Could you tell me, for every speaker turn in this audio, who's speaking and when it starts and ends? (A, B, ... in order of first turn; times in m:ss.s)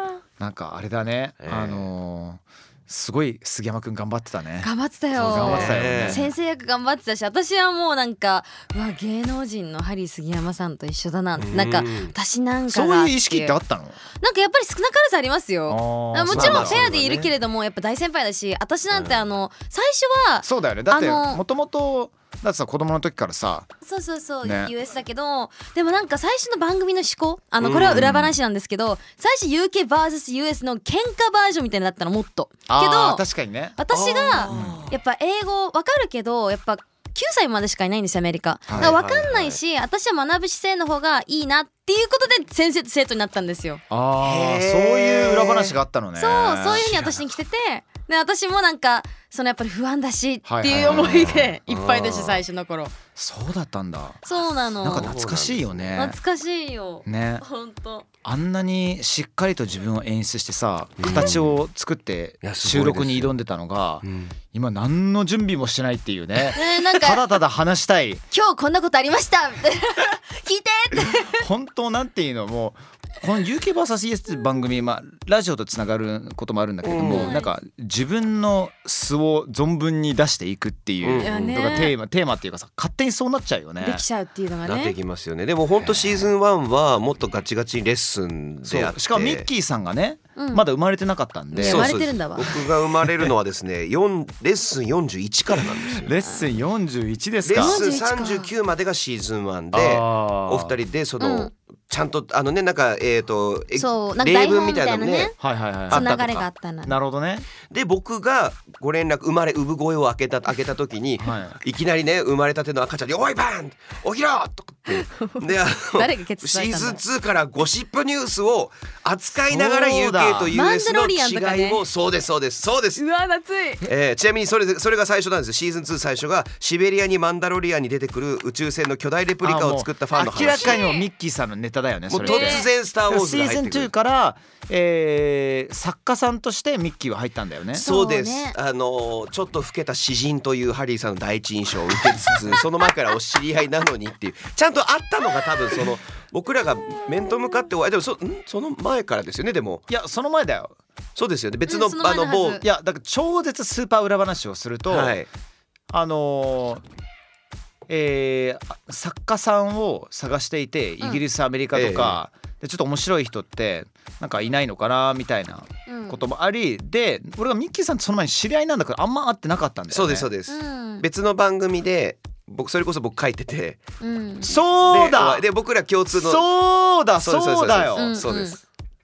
0:00.4-0:06.3 A
0:01.4-0:01.9 B
0:04.6-0:13.6 C
0:05.2-0:06.3 B
0:11.4-0:12.1 B
0:12.7-0:14.0 A
0:14.2-0:21.4 C
0:15.7-0:16.8 A
0:16.3-0:17.3 B
0:18.9-0:19.2 B
0:20.4-0:23.7 A
0:23.8-0:33.2 C
0:24.4-0:24.7 A
0:27.6-0:28.3 B
0:32.7-0:33.8 A
0:33.8-0:43.8 C
0:33.9-0:34.9 B
0:34.5-0:34.9 A
0:38.7-0:38.9 A
0:38.7-0:39.6 B
0:43.9-0:47.2 A
0:44.2-0:45.8 B
0:46.2-0:52.9 C
0:50.4-0:51.4 A
0:50.8-0:52.4 B
0:53.2-0:54.2 A
0:54.2-0:55.1 C
0:54.8-0:56.2 A
0:54.9-0:56.0 B
0:56.0-0:58.0 C
0:57.0-0:57.4 A
0:58.2-1:08.2 A
1:01.0-1:01.5 B
1:01.0-1:01.3 C
1:02.4-1:03.3 B
1:04.0-1:04.3 B
1:06.5-1:07.3 C
1:08.3-1:11.4 C
1:10.9-1:24.0 A
1:16.8-1:17.3 B
1:17.0-1:17.5 C
1:21.0-1:21.8 B
1:21.2-1:21.9 C
1:23.8-1:25.0 C
1:24.6-1:29.5 B
1:25.8-1:26.3 A
1:28.6-1:32.0 A
1:30.4-1:30.6 C
1:31.5-1:32.6 C
1:31.6-1:36.1 B
1:36.0-1:37.8 A
1:37.4-1:45.4 B
1:37.5-1:38.5 C
1:39.7-1:40.7 A
1:41.2-1:41.5 C
1:43.8-1:45.3 C
1:45.4-1:47.5 A
1:45.9-1:46.4 B
1:45.9-1:46.9 C
1:47.7-2:03.0 B
1:51.2-1:51.6 A
1:54.9-1:57.0 C
1:59.4-2:00.5 A
2:00.5-2:01.8 C
2:03.0-2:03.8 C
2:03.8-2:10.8 B
2:09.4-2:17.8 A
2:10.4-2:11.1 C
2:12.1-2:13.9 B
2:12.2-2:12.7 C
2:17.7-2:18.6 C
2:17.8-2:29.8 B
2:29.9-2:30.8 A
2:31.2-2:32.6 B
2:31.7-2:32.6 C
2:32.6-2:35.2 A
2:34.9-2:35.3 B
2:35.9-2:36.8 A
2:37.9-2:50.3 A
2:41.7-2:42.2 B
2:45.9-2:46.2 C
2:49.9-2:53.8 B
2:50.5-2:51.0 C
2:54.0-2:54.5 C
2:54.4-2:55.4 A
2:54.8-2:56.5 B
2:56.1-2:58.2 A
2:57.2-2:58.6 B
2:58.0-2:58.6 C